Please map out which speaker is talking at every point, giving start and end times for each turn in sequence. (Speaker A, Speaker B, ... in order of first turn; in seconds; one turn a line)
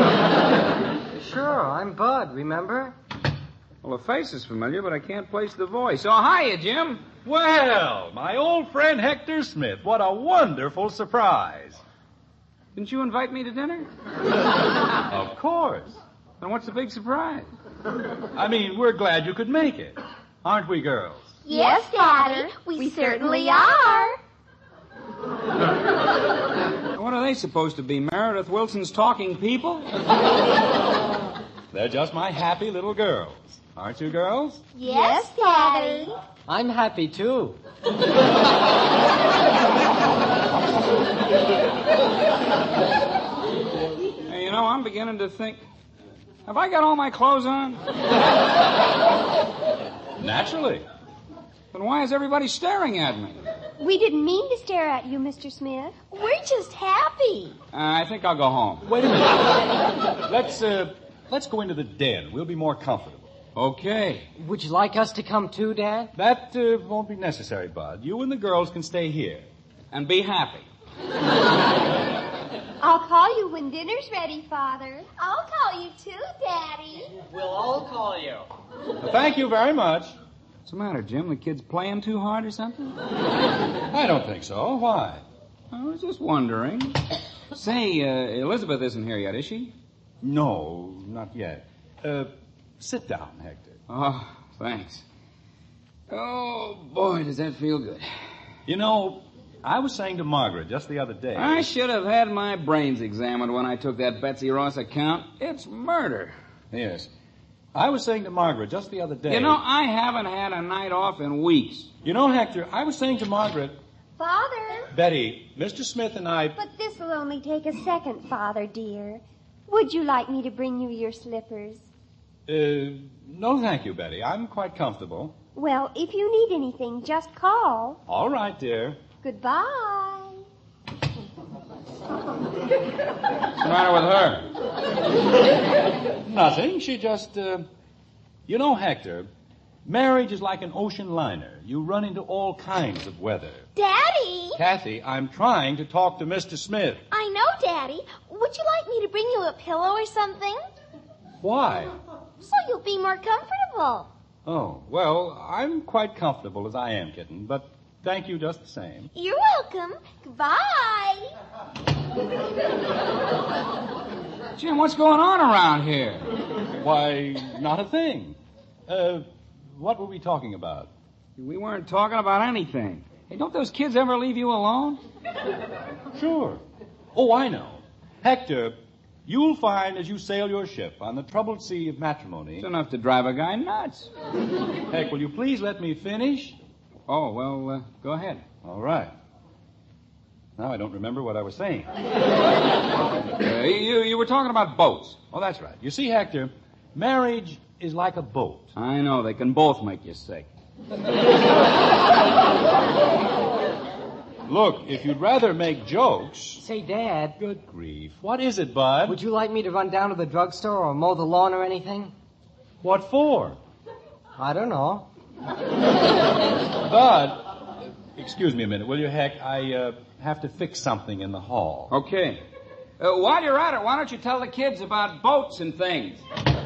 Speaker A: 1.1-2.9
Speaker B: 3.8-7.1
Speaker C: 7.2-11.8
Speaker B: 12.8-13.9
Speaker C: 15.1-16.0
Speaker B: 16.4-17.5
Speaker C: 18.3-21.4
Speaker D: 21.4-24.1
Speaker E: 21.5-24.1
Speaker B: 26.9-29.9
Speaker C: 31.7-34.6
Speaker D: 34.7-36.1
Speaker E: 34.8-36.1
Speaker A: 36.5-37.6
Speaker B: 44.3-45.6
Speaker B: 46.5-47.8
Speaker C: 50.2-50.8
Speaker B: 51.7-53.4
Speaker E: 53.8-56.0
Speaker D: 56.1-57.5
Speaker B: 57.7-58.9
Speaker C: 58.8-59.6
Speaker C: 60.2-63.3
Speaker B: 63.5-64.3
Speaker A: 64.4-66.1
Speaker C: 66.1-69.4
Speaker B: 69.9-70.7
Speaker E: 72.8-75.1
Speaker D: 75.2-77.1
Speaker A: 77.2-78.4
Speaker C: 79.0-80.2
Speaker B: 80.6-83.0
Speaker C: 83.9-85.2
Speaker B: 85.7-87.0
Speaker B: 87.5-89.7
Speaker C: 90.2-93.8
Speaker B: 93.9-95.0
Speaker B: 96.1-98.1
Speaker C: 98.7-101.7
Speaker B: 101.3-106.3
Speaker C: 106.7-107.1
Speaker C: 107.7-109.6
Speaker B: 109.3-111.9
Speaker C: 112.0-113.8
Speaker E: 114.2-114.9
Speaker C: 114.9-116.6
Speaker E: 116.6-121.9
Speaker C: 122.5-125.4
Speaker E: 125.5-128.0
Speaker C: 128.1-129.0
Speaker E: 129.2-130.4
Speaker B: 133.6-134.5
Speaker C: 136.2-137.7
Speaker C: 138.5-139.3
Speaker C: 139.8-143.7
Speaker D: 143.8-144.6
Speaker C: 144.6-147.0
Speaker D: 147.1-150.6
Speaker C: 151.4-152.0
Speaker D: 152.4-154.1
Speaker C: 154.4-159.1
Speaker D: 159.1-161.3
Speaker B: 164.6-166.2
Speaker C: 166.7-170.9
Speaker B: 171.4-175.0
Speaker C: 176.1-176.6
Speaker C: 177.1-182.7
Speaker B: 182.6-184.1
Speaker C: 184.9-186.6
Speaker B: 187.1-188.4
Speaker C: 188.6-189.1
Speaker C: 190.6-191.9
Speaker B: 193.4-195.2
Speaker C: 195.3-198.7
Speaker B: 198.7-200.5
Speaker C: 204.4-206.6
Speaker A: 206.6-207.4
Speaker C: 207.4-209.2
Speaker A: 209.1-212.1
Speaker C: 212.8-213.6
Speaker A: 214.4-215.1
Speaker C: 216.8-221.9
Speaker B: 221.9-222.4
Speaker B: 223.0-226.2